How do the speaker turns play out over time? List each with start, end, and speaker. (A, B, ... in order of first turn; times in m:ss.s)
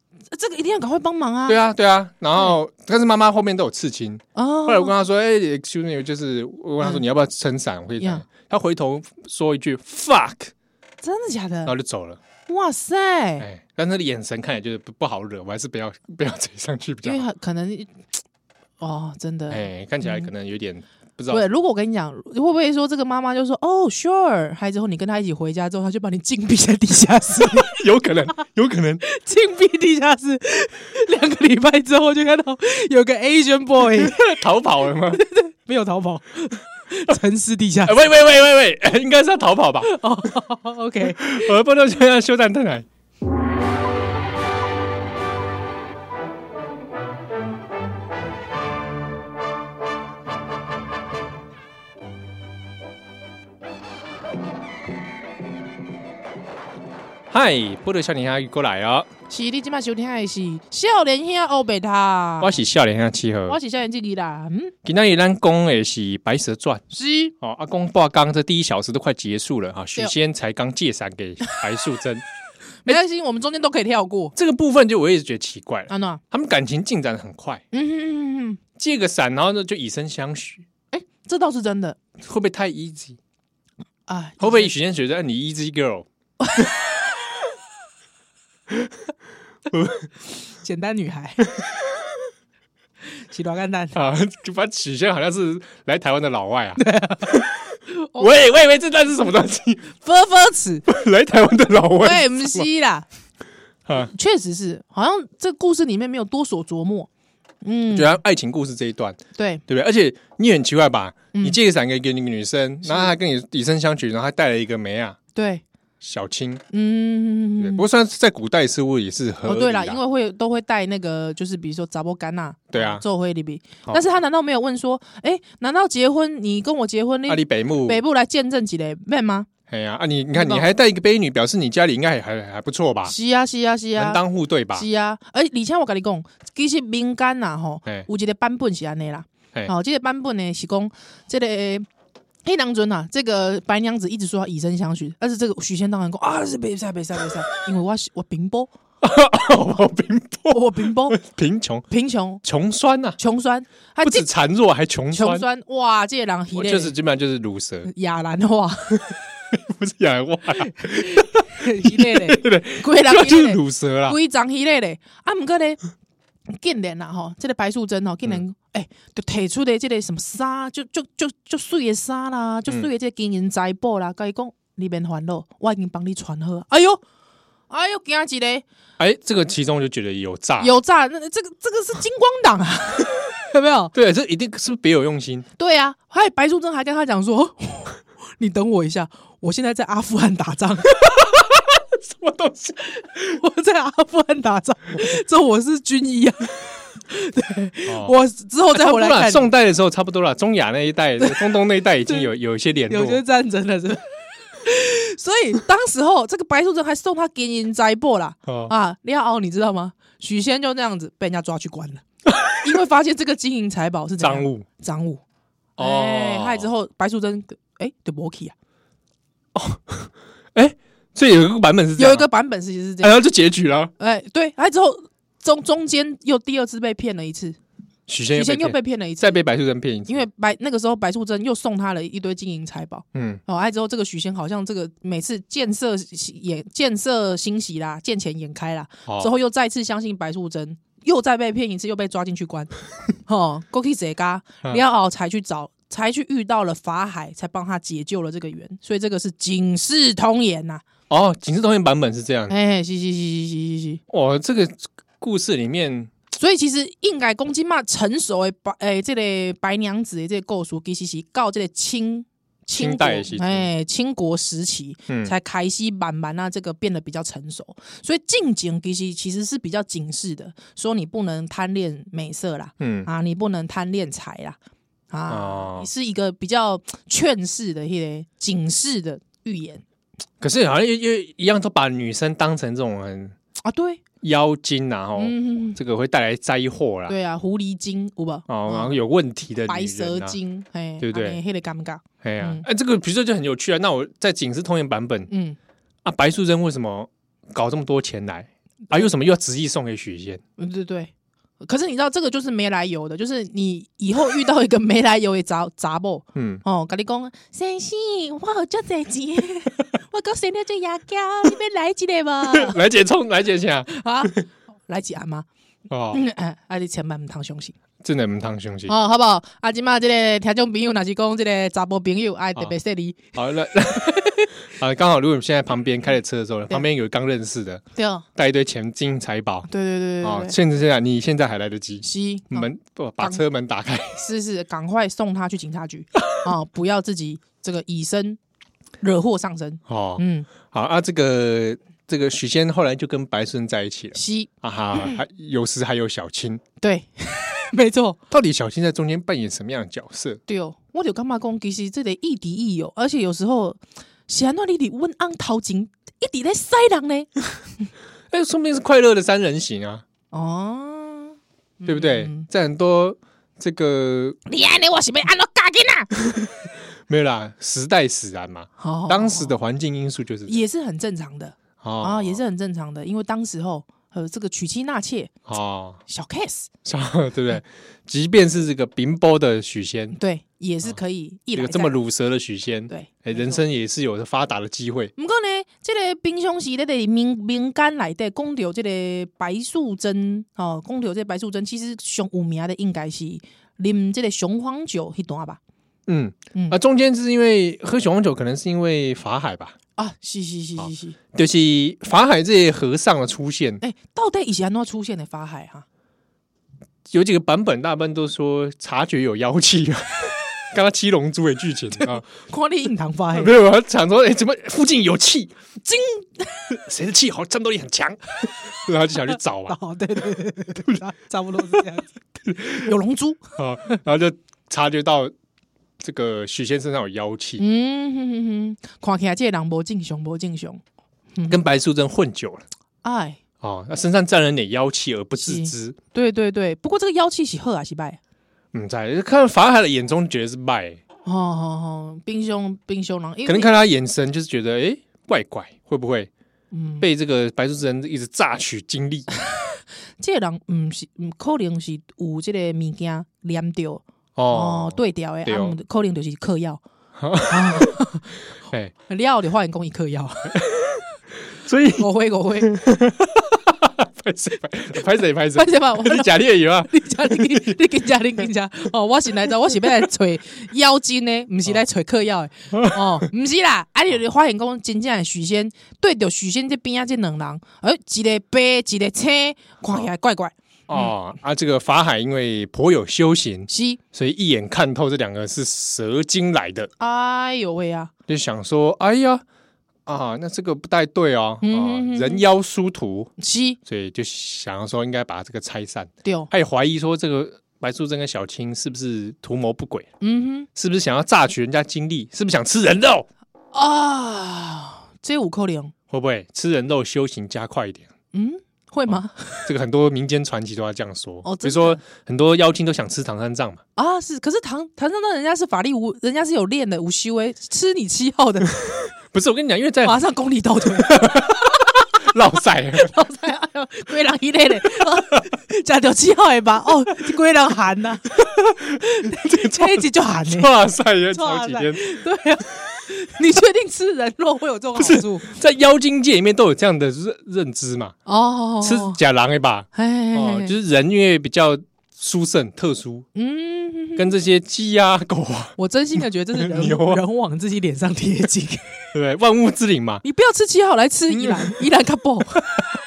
0:00.3-0:01.6 A
0:01.5-0:10.5 B
0:04.4-0:04.9 A
0:11.0-0:11.7 A
0:11.7-0:12.2 B
0:12.5-0:13.5 A
0:13.4-0:17.2 B
0:17.0-0:18.0 A
0:18.8-0:20.3 A
0:19.5-0:21.5 B
0:21.3-0:27.8 A
0:27.4-0:29.0 B
0:29.0-0:34.2 A
0:33.9-0:35.2 B
0:35.1-0:38.0 A
0:37.8-0:39.9 B
0:39.8-0:41.5 A
0:41.0-0:42.9 B
0:57.3-0:59.1 B
0:59.3-1:02.6 A
1:02.4-1:03.6 B
1:03.5-1:04.7 A
1:04.8-1:06.8 B
1:06.9-1:07.3 A
1:07.4-1:12.2 B
1:12.8-1:14.3 A
1:14.4-1:17.6 B
1:15.9-1:16.2 A
1:17.7-1:18.6 A
1:18.8-1:20.7 B
1:20.9-1:22.0 A
1:22.2-1:23.2 B
1:24.1-1:24.7 A
1:24.4-1:26.1 B
1:26.4-1:26.7 A
1:29.7-1:30.1 B
1:30.6-1:31.4 A
1:33.3-1:34.0 A
1:33.9-1:39.9 B
1:36.8-1:38.3 A
1:40.0-1:40.8 A
1:40.9-1:42.7 B
1:42.0-1:43.1 A
1:44.0-1:47.1 A
1:47.6-1:48.2 A
1:47.9-1:55.2 B
1:49.4-1:49.6 A
1:52.8-1:53.1 A
1:55.4-1:55.6 A
1:56.0-1:56.6 B
1:56.7-1:57.8 A
1:57.6-2:00.0 B
1:59.4-2:09.5 A
2:02.7-2:03.0 B
2:07.3-2:08.0 B
2:09.7-2:13.1 B
2:10.4-2:10.7 A
2:13.0-2:14.2 A
2:14.0-2:14.9 B
2:14.7-2:21.9 A
2:22.4-2:28.7 A
2:29.0-2:31.9 B
2:30.5-2:31.2 A
2:31.9-2:32.4 A
2:32.4-2:33.2 B
2:33.2-2:34.3 A
2:34.0-2:35.5 B
2:35.1-2:37.0 A
2:36.6-2:37.9 B
2:37.9-2:39.1 A
2:39.5-2:44.2 B
2:40.7-2:45.8 A
2:46.5-2:57.0 A
2:57.7-2:58.6 A
2:59.0-3:00.7 B
3:00.6-3:03.9 A
3:03.9-3:05.5 B
3:05.6-3:11.0 A
3:11.0-3:13.2 B
3:12.8-3:19.5 A
3:17.9-3:18.2 B
3:18.7-3:23.2 B
3:22.9-3:24.1 A
3:24.6-3:32.0 A
3:28.5-3:28.7 B
3:32.3-3:32.6 B
3:32.6-3:35.2 A
3:34.2-3:34.7 B
3:35.8-3:38.6 A
3:35.8-3:36.7 B
3:39.5-3:42.3 B
3:42.0-3:43.2 A
3:43.0-3:43.9 B
3:44.0-3:47.6 A
3:48.1-3:50.2 B
3:48.3-3:49.4 A
3:50.1-4:02.7 A
3:53.1-3:53.4 B
4:03.3-4:10.8 A
4:11.1-4:12.5 B
4:12.5-4:14.0 A
4:14.1-4:16.1 B
4:16.3-4:34.6 A
4:22.8-4:23.7 B
4:25.1-4:25.3 B
4:32.8-4:33.1 B
4:35.1-4:39.8 A
4:35.3-4:35.9 B
4:40.4-4:43.4 B
4:43.6-4:44.0 A
4:44.2-4:47.2 B
4:45.2-4:45.8 A
4:47.1-4:49.0 A
4:48.5-4:50.4 B
4:49.7-4:52.6 A
4:51.0-4:51.4 B
4:52.2-4:55.3 B
4:55.3-4:55.6 A
4:56.0-5:00.4 B
5:00.6-5:12.8 A
5:06.4-5:06.6 B
5:12.5-5:14.4 B
5:13.9-5:15.5 A
5:15.9-5:16.2 B
5:16.1-5:17.8 A
5:18.0-5:18.9 B
5:18.9-5:23.3 A
5:23.3-5:27.8 B
5:23.9-5:24.5 A
5:28.0-5:28.2 A
5:28.4-5:29.7 B
5:29.7-5:30.6 A
5:30.2-5:34.3 B
5:32.0-5:33.4 A
5:34.2-5:38.4 A
5:39.0-5:40.5 A
5:39.9-5:46.6 B
5:44.1-5:45.2 A
5:46.8-5:48.2 A
5:48.3-5:50.4 B
5:50.5-5:57.9 A
5:58.3-6:00.0 B
6:00.3-6:02.5 A
6:01.9-6:04.4 B
6:04.5-6:06.1 A
6:07.1-6:10.6 B
6:08.8-6:09.5 A
6:10.5-6:15.4 A
6:11.8-6:12.4 B
6:15.5-6:16.0 B
6:16.1-6:16.7 A
6:16.8-6:20.2 B
6:20.2-6:22.0 A
6:21.6-6:25.1 B
6:22.9-6:23.6 A
6:25.2-6:35.6 A
6:36.1-6:39.8 B
6:40.0-6:41.2 A
6:40.8-6:43.8 B
6:43.8-6:45.8 A
6:47.1-6:52.3 B
6:52.0-6:53.6 A
6:53.3-6:55.6 B
6:55.8-6:56.7 A
6:56.7-6:59.8 B
6:59.3-7:02.1 A
7:02.5-7:02.9 B
7:02.7-7:04.0 A
7:03.6-7:05.3 B
7:06.0-7:07.6 B
7:07.6-7:10.8 A
7:11.4-7:11.6 A
7:11.5-7:12.6 B
7:13.0-7:13.4 A
7:13.6-7:16.0 B
7:15.4-7:18.2 A
7:18.7-7:21.0 B
7:21.2-7:23.7 A
7:23.5-7:26.3 B
7:26.7-7:27.1 A
7:27.0-7:29.3 B
7:30.2-7:36.8 A
7:34.4-7:35.8 B
7:37.2-7:38.0 B
7:37.5-7:38.3 A
7:39.1-7:40.7 A
7:41.6-7:42.1 B
7:42.0-7:42.8 A
7:42.6-7:47.8 B
7:45.6-8:01.1 A
7:52.7-7:53.2 B
8:00.9-8:06.9 B
8:03.7-8:04.0 A
8:07.0-8:08.1 A
8:08.3-8:09.4 B
8:10.1-8:13.3 B
8:11.6-8:12.4 A
8:13.4-8:13.8 A
8:13.9-8:20.1 B
8:16.2-8:16.5 A
8:20.2-8:20.7 A
8:20.8-8:23.3 B
8:23.7-8:25.9 A
8:26.1-8:28.1 B
8:28.3-8:29.7 A
8:29.7-8:33.8 B
8:31.4-8:32.0 A
8:34.0-8:39.0 A
8:39.3-8:40.2 B
8:40.0-8:41.9 A
8:41.0-8:43.1 B
8:42.9-8:48.4 A
8:48.4-8:52.0 B
8:49.0-8:50.7 A
8:51.3-8:55.5 A
8:55.0-8:58.2 B
8:58.3-8:59.2 A
8:58.8-9:03.3 B
8:59.9-9:00.7 A
9:03.4-9:04.3 A
9:04.2-9:05.8 B
9:05.8-9:09.1 A
9:06.6-9:07.2 B
9:09.1-9:10.2 B
9:10.2-9:12.8 A
9:11.3-9:11.7 B